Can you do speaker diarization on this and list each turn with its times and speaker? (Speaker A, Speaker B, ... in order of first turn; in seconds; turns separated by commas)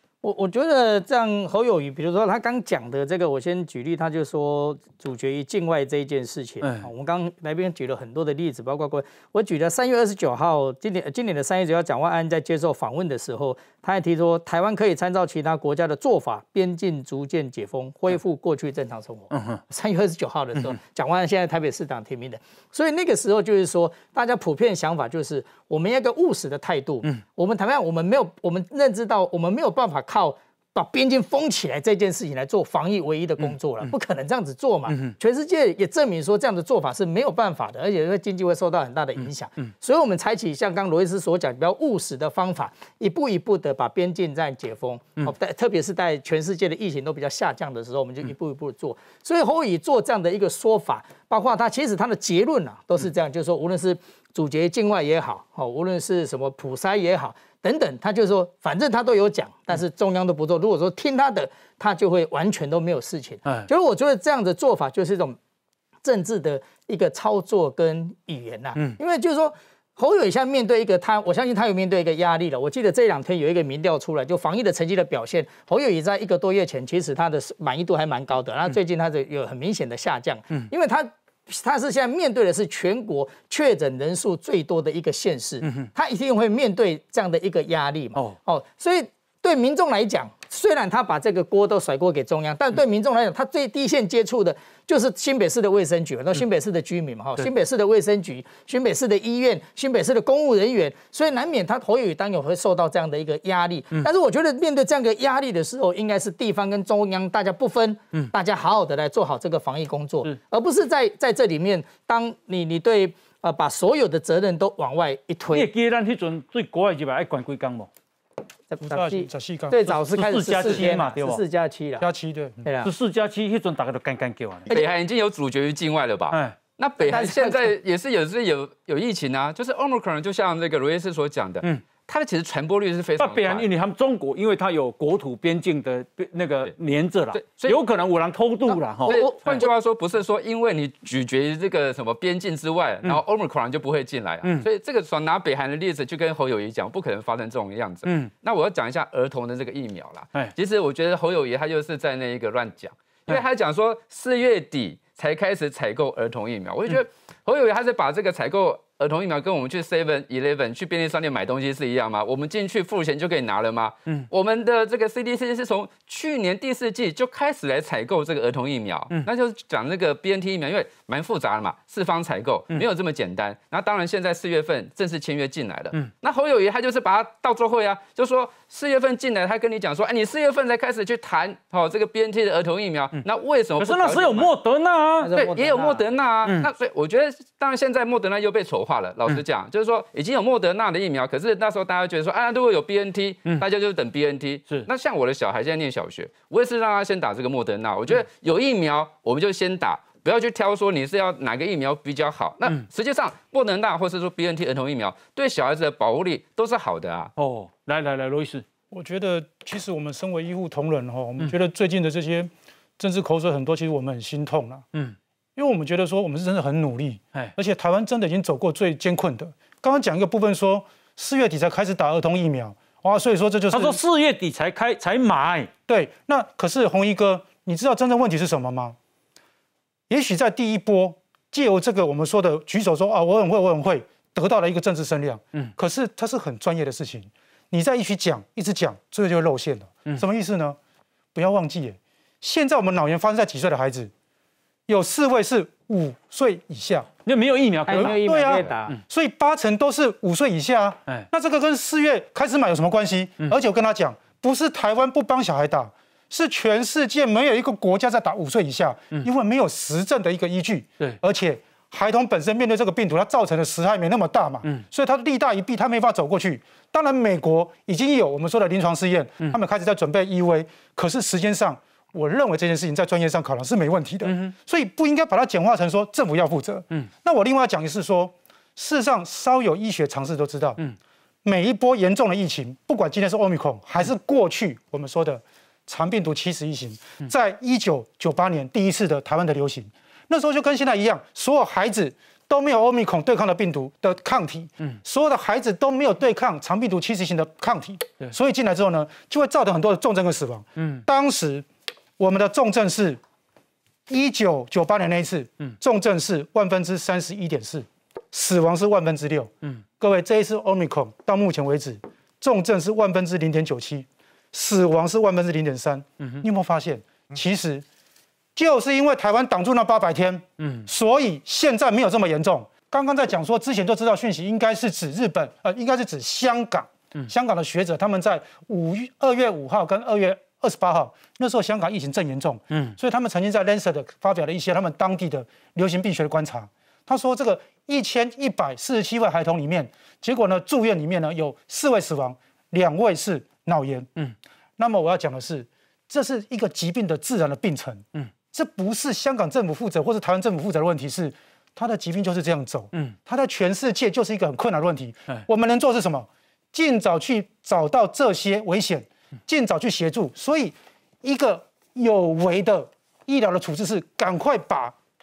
Speaker A: 0.2-65.4, Speaker B: 6.6-6.9, Speaker B: 19.3-19.6, Speaker B: 33.4-33.9, Speaker B: 34.9-35.1, Speaker B: 39.2-39.7, Speaker A: 66.0-115.7, Speaker B: 85.6-85.9, Speaker B: 115.5-117.9, Speaker A: 118.7-122.0, Speaker C: 118.8-120.0, Speaker B: 120.1-121.4, Speaker C: 122.0-122.7, Speaker A: 122.6-122.9, Speaker B: 122.8-124.7, Speaker D: 124.7-133.7, Speaker B: 126.3-126.6, Speaker A: 127.0-127.7, Speaker B: 133.2-139.6, Speaker D: 137.3-137.8, Speaker A: 139.1-139.7, Speaker D: 139.1-184.5, Speaker B: 148.1-148.3, Speaker B: 183.8-185.3, Speaker A: 185.2-186.1, Speaker D: 185.3-207.3, Speaker B: 207.4-208.6, Speaker C: 208.9-214.8, Speaker C: 215.6-224.0, Speaker B: 223.7-225.7, Speaker C: 225.9-229.0, Speaker C: 230.1-240.8, Speaker C: 241.3-244.1, Speaker C: 244.9-247.1, Speaker B: 247.2-249.0, Speaker A: 247.9-249.0, Speaker C: 247.9-280.8, Speaker B: 274.2-274.5, Speaker C: 281.4-301.6, Speaker B: 300.8-301.0, Speaker C: 302.2-303.2, Speaker C: 304.1-317.8, Speaker B: 316.2-316.4, Speaker C: 318.5-344.1, Speaker B: 320.6-320.9, Speaker B: 332.7-333.0, Speaker C: 344.8-364.9